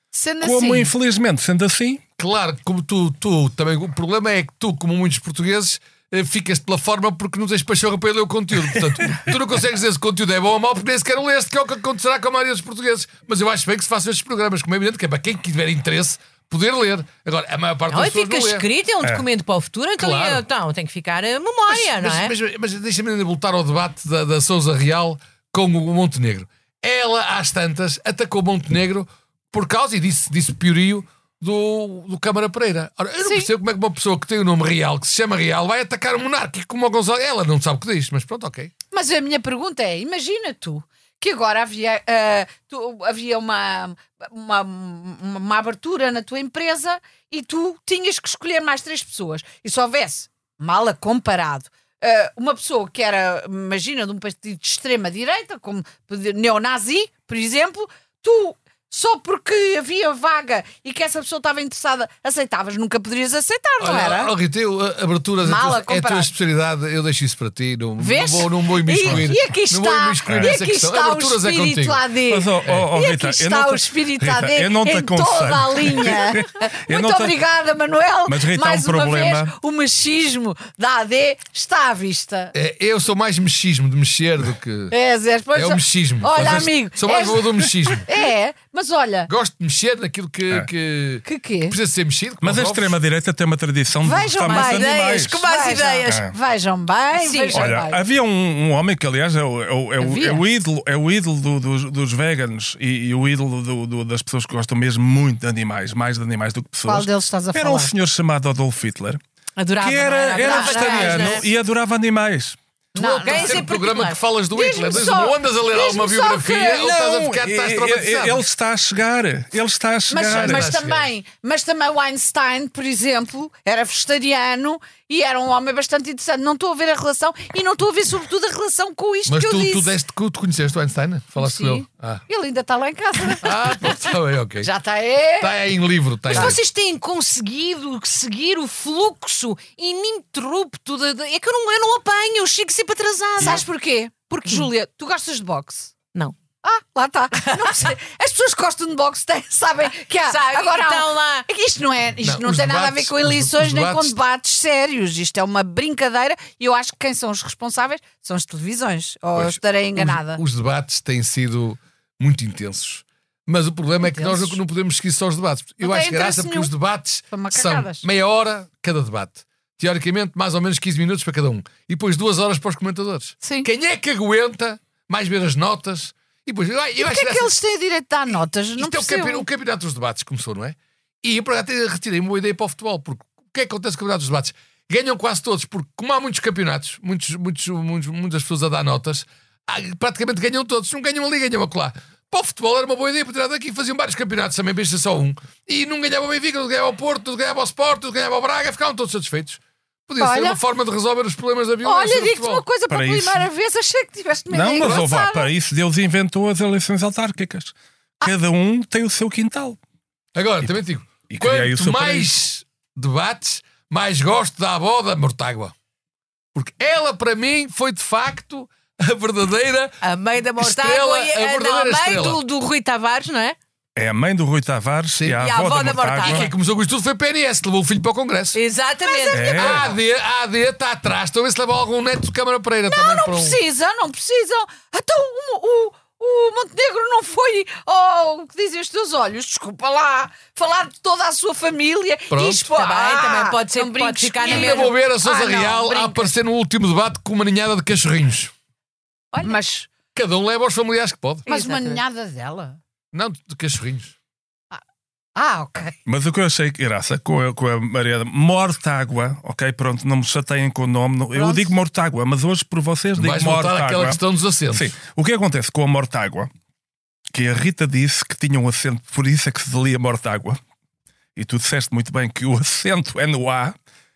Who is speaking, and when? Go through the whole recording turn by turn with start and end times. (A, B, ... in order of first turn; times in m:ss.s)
0:00.1-0:00.9 A
0:00.4-0:02.0 B
0:02.2-0:18.6 C
0:17.9-0:22.3 D
0:20.0-0:20.4 C
0:21.7-0:38.7 C
0:33.2-0:33.5 A
0:38.9-1:04.3 A
1:03.8-1:12.0 C
1:05.4-1:06.3 A
1:08.0-1:22.5 A
1:12.3-1:17.4 B
1:18.3-1:19.5 B
1:22.5-1:24.9 C
1:24.9-1:29.3 A
1:25.5-1:28.1 C
1:29.3-1:32.9 C
1:31.2-1:31.8 A
1:32.4-1:35.4 B
1:34.0-1:38.0 A
1:34.4-1:36.3 D
1:36.0-1:36.3 B
1:37.1-1:37.7 D
1:37.5-1:49.2 B
1:40.0-1:40.4 A
1:46.8-1:47.9 A
1:49.6-1:51.4 D
1:49.8-1:52.6 B
1:50.4-1:51.4 A
1:52.9-1:53.7 A
1:53.0-1:58.4 C
1:53.2-1:54.2 D
1:54.5-1:56.9 A
1:56.6-2:00.7 B
2:00.1-2:09.9 A
2:00.3-2:01.0 C
2:09.3-2:12.2 C
2:11.4-2:13.9 A
2:13.4-2:14.7 C
2:14.6-2:15.6 A
2:15.4-2:16.6 C
2:16.3-2:23.6 D
2:16.3-2:16.6 A
2:23.4-2:25.9 A
2:24.3-2:24.7 D
2:26.6-2:40.4 A
2:27.4-2:27.9 D
2:30.2-2:31.5 D
2:32.2-2:34.2 C
2:39.4-2:57.5 C
2:44.0-2:44.6 A
2:45.8-2:46.7 A
2:47.3-2:48.0 A
2:53.4-2:53.7 A
2:57.0-2:59.4 A
2:58.8-3:22.6 C
3:20.2-3:20.6 A
3:21.8-3:25.5 A
3:22.9-3:23.4 B
3:24.5-3:29.8 B
3:30.3-3:35.7 C
3:31.3-3:32.3 B
3:36.5-3:40.0 C
3:40.0-3:43.6 D
3:40.6-3:42.4 C
3:44.0-3:46.5 B
3:45.4-3:46.5 D
3:46.2-3:48.6 C
3:48.5-3:49.8 D
3:49.0-3:49.8 A
3:49.3-3:49.9 B
3:49.6-3:53.6 C
3:52.9-4:06.3 A
4:02.3-4:02.6 C
4:02.7-4:05.0 D
4:04.4-4:08.5 C
4:09.3-4:09.9 A
4:10.1-4:11.4 C
4:11.4-4:12.0 D
4:11.4-4:12.8 A
4:13.1-4:14.1 C
4:15.4-4:16.0 A
4:16.0-4:26.5 B
4:21.3-4:21.7 A
4:23.2-4:24.9 C
4:27.3-4:30.6 B
4:31.4-4:33.7 B